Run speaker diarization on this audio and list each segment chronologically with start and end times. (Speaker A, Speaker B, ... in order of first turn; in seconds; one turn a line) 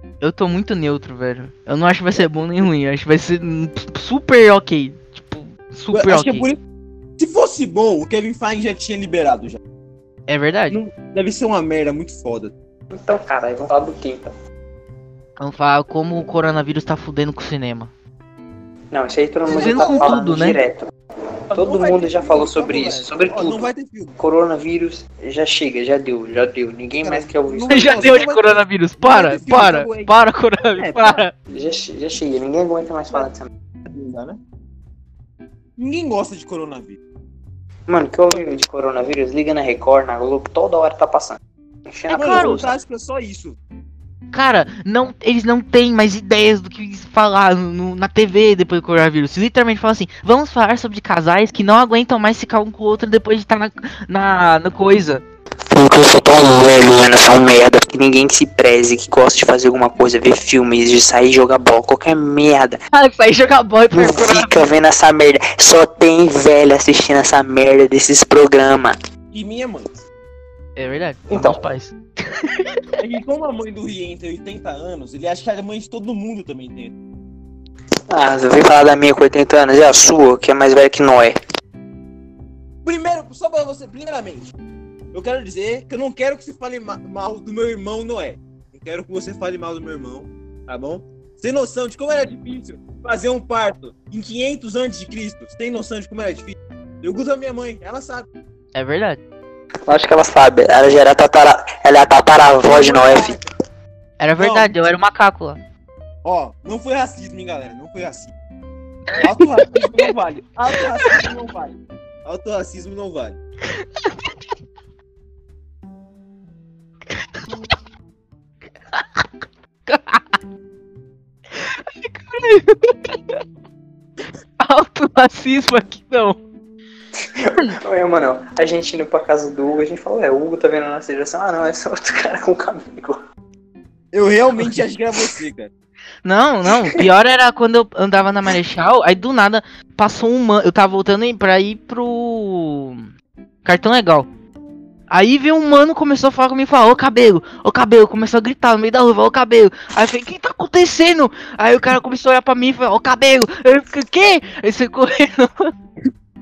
Speaker A: 0.2-6.5
Speaker B: 2.2-2.7
Speaker B: 5.9-6.6
Speaker B: 7.2-9.6
Speaker A: 10.3-10.8
Speaker B: 10.7-12.5
Speaker C: 12.9-14.3
Speaker A: 15.4-17.9
Speaker C: 18.9-20.9
Speaker A: 19.5-20.6
Speaker B: 19.5-20.3
Speaker B: 21.5-24.2
Speaker C: 21.5-28.0
Speaker B: 27.0-31.2
Speaker A: 27.7-31.3
Speaker C: 31.5-33.5
Speaker B: 33.9-34.4
Speaker B: 35.8-37.0
Speaker C: 37.9-42.7
Speaker B: 42.1-43.6
Speaker A: 42.1-42.6
Speaker A: 44.3-55.2
Speaker C: 55.7-62.8
Speaker A: 62.9-64.7
Speaker C: 63.9-69.0
Speaker B: 69.3-69.9
Speaker A: 70.8-72.8
Speaker C: 71.3-71.6
Speaker B: 73.0-76.9
Speaker C: 78.1-81.4
Speaker B: 82.8-84.5
Speaker B: 85.1-98.3
Speaker A: 98.8-99.2
Speaker C: 99.9-103.4
Speaker B: 102.7-103.4
Speaker A: 104.2-105.6
Speaker B: 104.4-104.8
Speaker B: 106.2-108.3
Speaker B: 109.2-113.4
Speaker A: 109.4-110.0
Speaker A: 111.0-111.3
Speaker A: 113.8-114.3
Speaker A: 119.9-120.2
Speaker A: 121.6-123.4
Speaker A: 124.6-126.4
Speaker C: 127.3-133.2
Speaker B: 134.1-135.7
Speaker A: 136.2-143.1
Speaker A: 143.7-144.3
Speaker A: 145.1-155.7